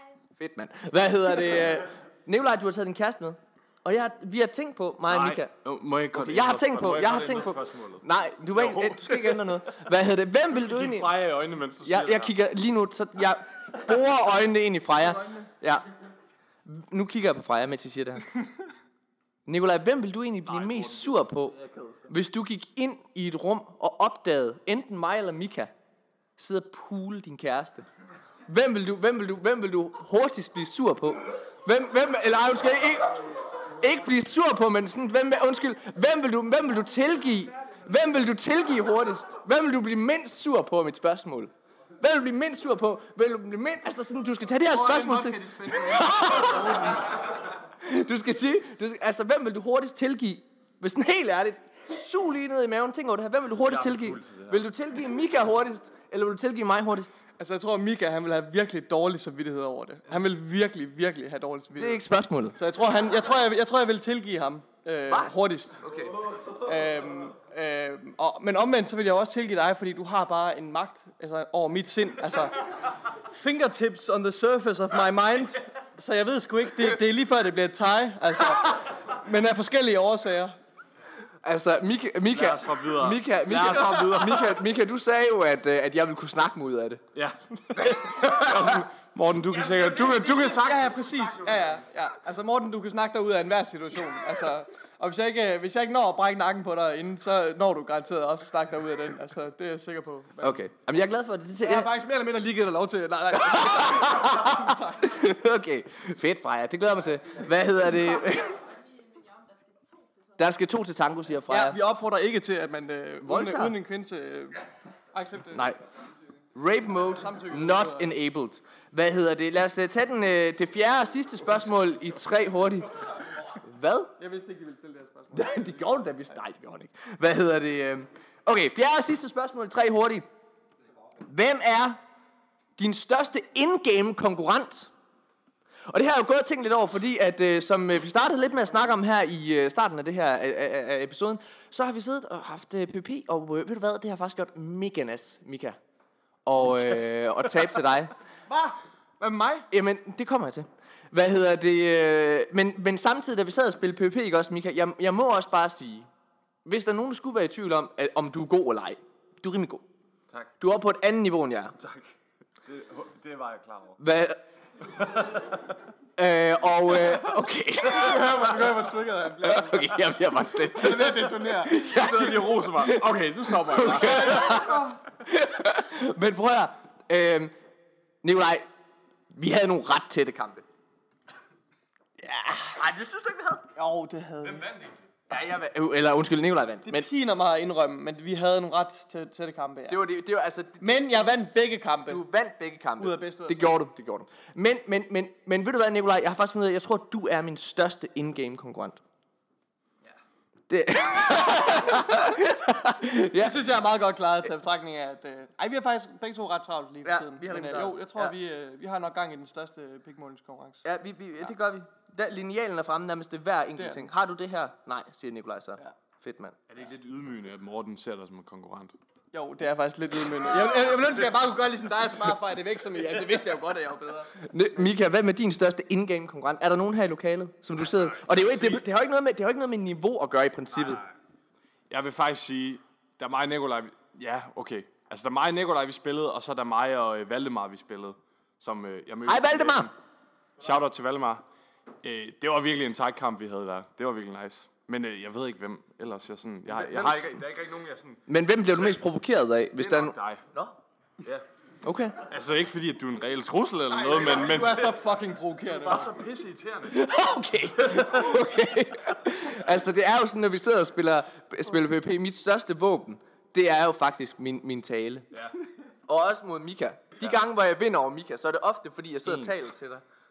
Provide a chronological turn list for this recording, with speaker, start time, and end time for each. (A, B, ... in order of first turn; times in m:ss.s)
0:00.4-0:05.5 A
0:05.1-0:09.6 B
0:06.1-0:11.1 A
0:10.5-0:12.3 B
0:11.8-0:15.8 A
0:16.6-0:18.2 A
0:19.5-0:21.5 A
0:20.5-0:22.0 B
0:22.1-0:25.7 A
0:26.4-0:27.9 A
0:28.5-0:47.0 A
0:44.6-0:47.0 C
0:47.8-0:57.2 A
0:53.6-0:54.6 B
0:57.4-1:02.0 C
1:01.8-1:02.6 A
1:02.6-1:05.8 C
1:05.1-1:06.2 A
1:06.5-1:12.6 C
1:13.3-1:20.6 C
1:21.4-1:27.0 A
1:22.3-1:24.6 B
1:27.1-1:31.4 B
1:27.8-1:28.8 A
1:29.9-1:40.6 C
1:40.4-1:41.9 A
1:41.6-1:44.7 C
1:43.4-1:48.6 A
1:50.4-1:51.8 A
1:51.5-1:54.6 C
1:53.2-1:53.7 A
1:55.1-1:55.7 C
1:55.5-1:55.8 A
1:56.5-2:02.9 A
1:57.1-1:58.1 C
2:03.6-2:04.1 A
2:04.2-2:06.0 C
2:05.3-2:10.2 A
2:11.3-2:12.0 A
2:12.8-2:14.9 A
2:15.9-2:25.8 A
2:26.4-2:28.1 A
2:28.5-2:29.7 C
2:29.7-2:36.1 A
2:36.6-2:39.8 A
2:40.6-2:41.7 A
2:41.8-2:42.1 B
2:42.6-2:44.0 B
2:44.0-2:44.4 A
2:45.0-2:45.2 B
2:46.2-2:48.6 A
2:47.8-2:50.0 C
2:49.4-2:57.5 A
2:50.7-2:51.7 C
2:51.9-2:54.7 B
2:58.2-2:58.6 A
2:59.3-3:00.6 A
3:02.2-3:03.7 A
3:03.8-3:04.7 C
3:04.4-3:05.0 B
3:05.3-3:07.1 A
3:06.8-3:10.0 C
3:09.9-3:11.0 A
3:10.8-3:12.2 C
3:12.1-3:19.0 A
3:13.0-3:13.8 C
3:20.7-3:23.6 A
3:23.4-3:30.8 C
3:27.0-3:28.3 A
3:30.8-3:36.6 A
3:33.8-3:34.0 C
3:36.7-3:38.9 B
3:39.3-3:44.3 C
3:44.4-3:51.0 A
3:47.8-3:48.8 B
3:50.7-3:51.1 B
3:51.9-3:59.9 B
3:59.3-3:59.9 A
4:00.6-4:01.4 B
4:02.0-4:09.0 B
4:06.7-4:07.4 A
4:08.3-4:10.8 A
4:09.8-4:10.4 B
4:11.8-4:12.2 A
4:12.2-4:15.0 B
4:13.9-4:16.1 C
4:15.6-4:16.9 B
4:16.9-4:25.2 A
4:17.8-4:18.3 B
4:26.1-4:30.0 A
4:29.3-4:29.5 B